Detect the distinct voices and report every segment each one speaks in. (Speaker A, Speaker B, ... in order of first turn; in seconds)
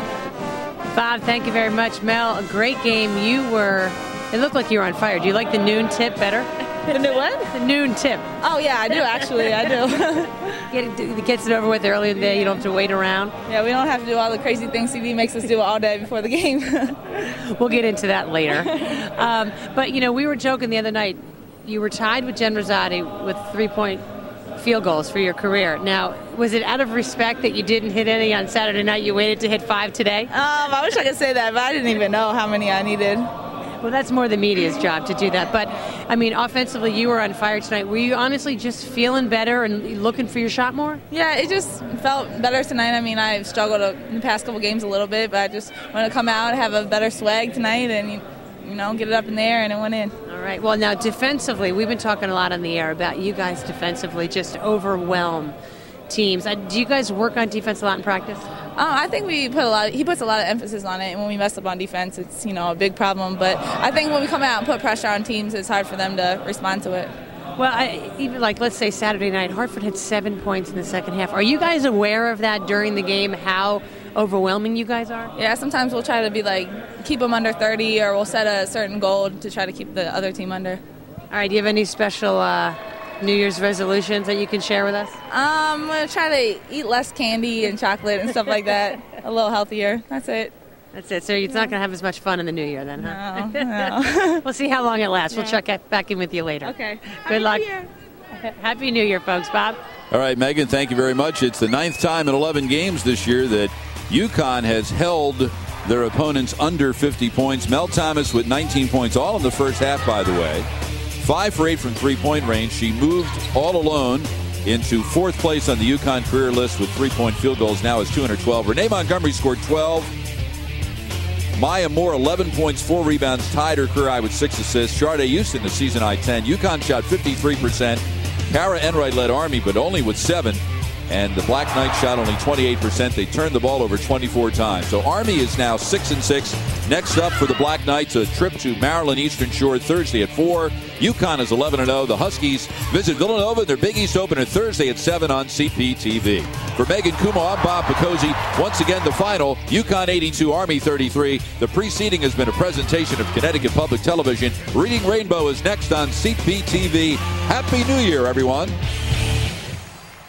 Speaker A: 0.9-8.3, 10.7-13.4, 17.2-24.0, 24.6-30.3, 33.8-41.0, 50.3-55.6, 56.1-58.5, 67.6-75.3, 81.3-85.2, 90.9-97.8, 98.3-99.8
Speaker B: 6.9-7.5, 8.4-10.6, 13.5-17.2, 18.6-18.9, 30.3-33.3, 41.1-50.2, 58.8-67.1, 75.3-80.8, 85.3-90.5, 93.0-94.4, 96.6-97.9
Speaker C: 100.1-110.7, 111.2-120.1, 121.6-158.8